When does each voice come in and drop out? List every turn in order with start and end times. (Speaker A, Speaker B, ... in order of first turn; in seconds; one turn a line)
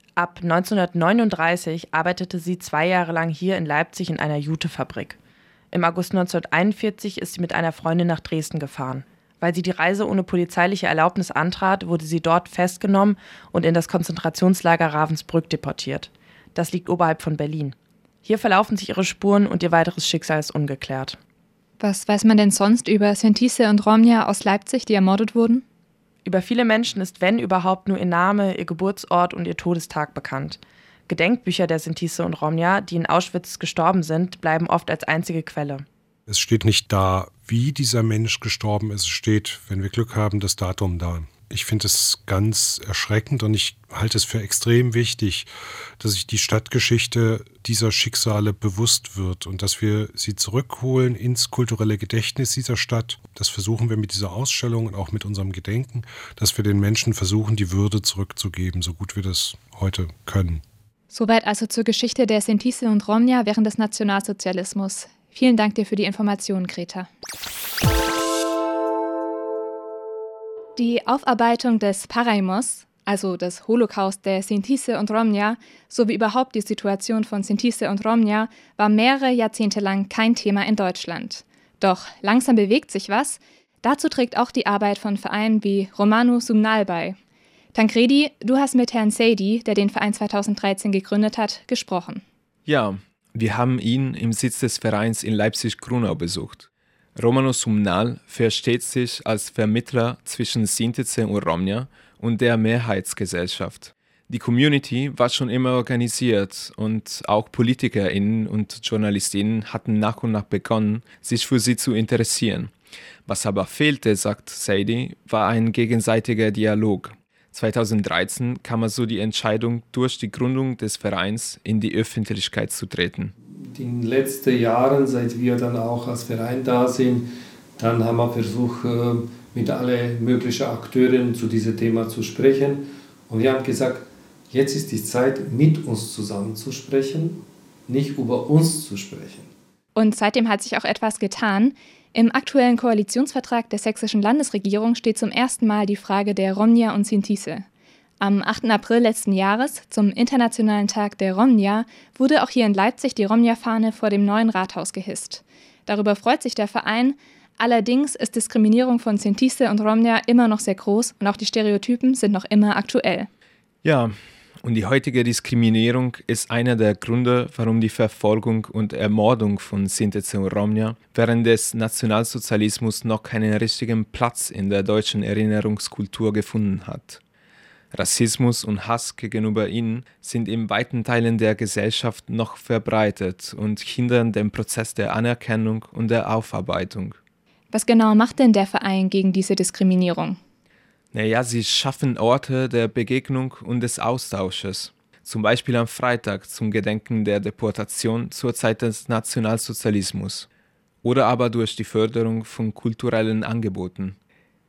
Speaker A: 0.1-5.2
Speaker A: 5.7-21.2
Speaker B: 21.8-25.6
Speaker A: 26.2-35.8
Speaker C: 36.3-60.6
Speaker B: 61.1-67.1
Speaker B: 70.8-87.2
Speaker B: 87.7-92.2
Speaker D: 92.7-112.7
Speaker D: 113.3-123.3
Speaker E: 123.7-139.5
Speaker B: 139.9-147.6
Speaker B: 148.2-163.3
Speaker D: 163.8-177.2
Speaker D: 177.9-187.2
Speaker B: 187.7-190.4
Speaker D: 191.1-200.5
Speaker D: 201.0-204.2